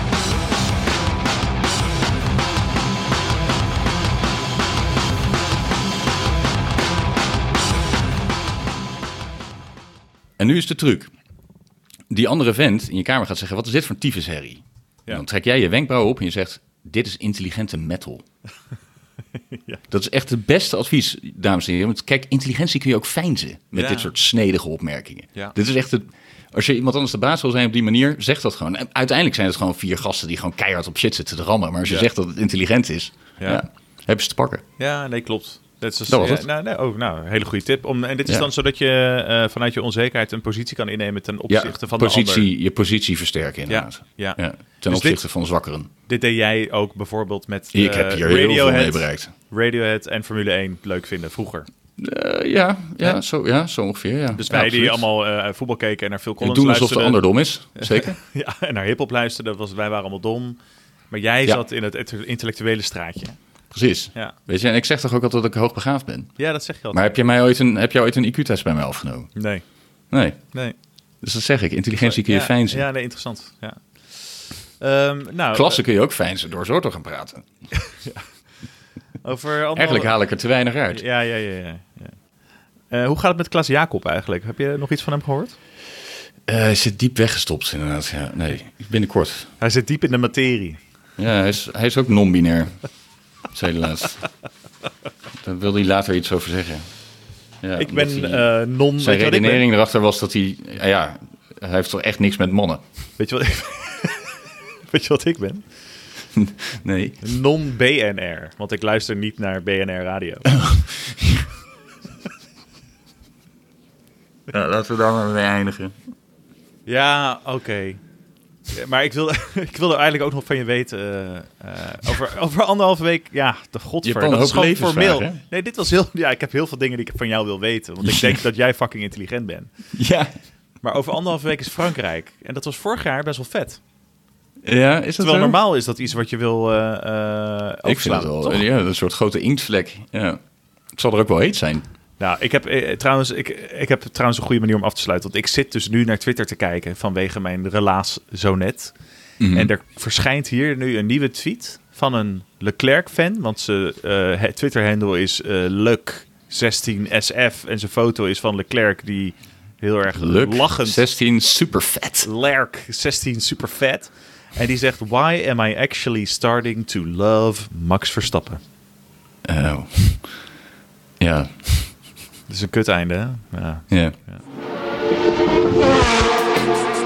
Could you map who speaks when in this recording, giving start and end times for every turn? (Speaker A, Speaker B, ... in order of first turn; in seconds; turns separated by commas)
Speaker A: 10.4-11.1, Speaker A: 12.1-18.2, Speaker B: 19.5-19.8, Speaker A: 19.9-34.6, Speaker B: 23.7-24.1, Speaker B: 33.4-33.6, Speaker B: 34.8-42.5, Speaker A: 36.1-36.5, Speaker A: 41.5-45.9, Speaker B: 43.7-45.2, Speaker B: 46.1-51.7, Speaker A: 47.7-49.3, Speaker A: 52.0-55.0, Speaker B: 54.3-60.6, Speaker A: 56.4-58.2, Speaker B: 61.1-63.4, Speaker A: 63.7-69.4, Speaker B: 66.4-67.0, Speaker B: 69.3-69.6, Speaker A: 70.1-70.4, Speaker A: 71.2-72.8, Speaker B: 72.0-75.8, Speaker A: 75.5-77.4, Speaker B: 77.9-78.2, Speaker B: 79.2-80.2, Speaker A: 79.7-81.0, Speaker B: 80.9-82.2, Speaker B: 82.9-85.5, Speaker A: 86.5-89.5, Speaker B: 89.6-90.8, Speaker A: 91.2-92.8, Speaker A: 93.5-94.2, Speaker A: 95.4-96.9, Speaker A: 97.6-102.8, Speaker B: 97.8-99.7, Speaker B: 103.2-104.3, Speaker B: 104.9-105.6, Speaker A: 106.3-107.2, Speaker B: 107.2-110.5, Speaker A: 110.6-111.4, Speaker A: 114.5-116.0, Speaker B: 116.8-118.0, Speaker B: 118.7-129.7, Speaker A: 124.0-125.4, Speaker A: 128.0-128.4, Speaker A: 129.9-130.3, Speaker B: 130.8-133.8, Speaker A: 134.6-135.6, Speaker B: 135.2-138.6, Speaker A: 137.8-140.4, Speaker A: 140.9-141.8, Speaker B: 142.2-148.9, Speaker A: 149.4-149.7, Speaker B: 149.5-161.0, Speaker A: 160.1-162.3, Speaker B: 162.2-168.6, Speaker A: 169.4-170.4, Speaker A: 171.2-172.0, Speaker B: 172.5-174.4, Speaker A: 173.9-174.1